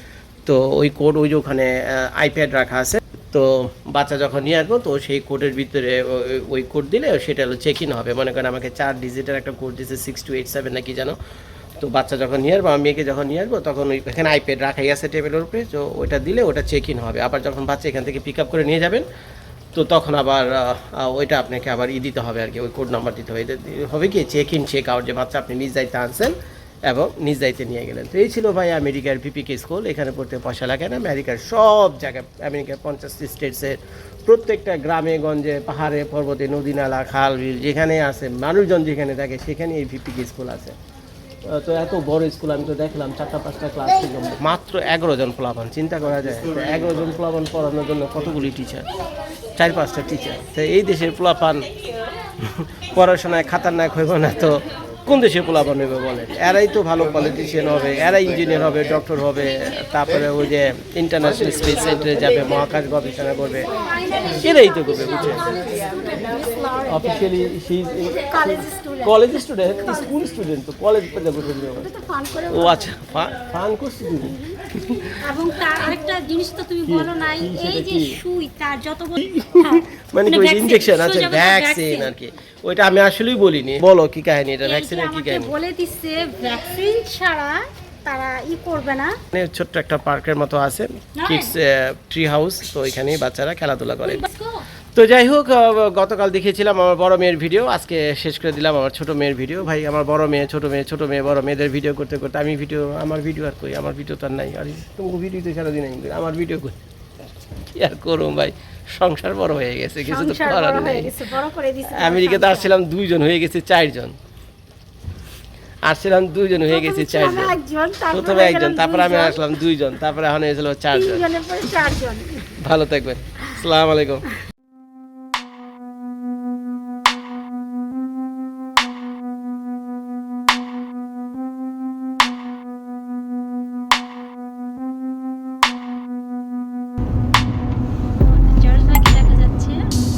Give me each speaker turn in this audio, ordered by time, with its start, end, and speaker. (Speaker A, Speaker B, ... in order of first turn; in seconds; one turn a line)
Speaker A: 0.5-11.2
Speaker A: 11.8-19.1
Speaker A: 19.7-26.4
Speaker A: 26.9-40.8
Speaker A: 41.4-48.9
Speaker A: 49.6-51.7
Speaker A: 52.4-66.3
Speaker B: 63.7-67.3
Speaker A: 66.8-71.9
Speaker B: 68.1-70.1
Speaker B: 71.7-73.0
Speaker A: 72.5-75.8
Speaker B: 75.1-82.1
Speaker A: 76.9-78.2
Speaker A: 79.2-85.5
Speaker B: 84.6-89.2
Speaker A: 89.3-94.2
Speaker B: 91.2-91.5
Speaker B: 94.0-94.6
Speaker A: 95.0-106.8
Speaker A: 107.7-111.2
Speaker B: 110.0-112.7
Speaker A: 111.8-114.2
Speaker A: 115.8-121.3
Speaker B: 116.7-119.5
Speaker B: 120.9-122.5
Speaker A: 122.6-124.3
Speaker B: 138.2-139.9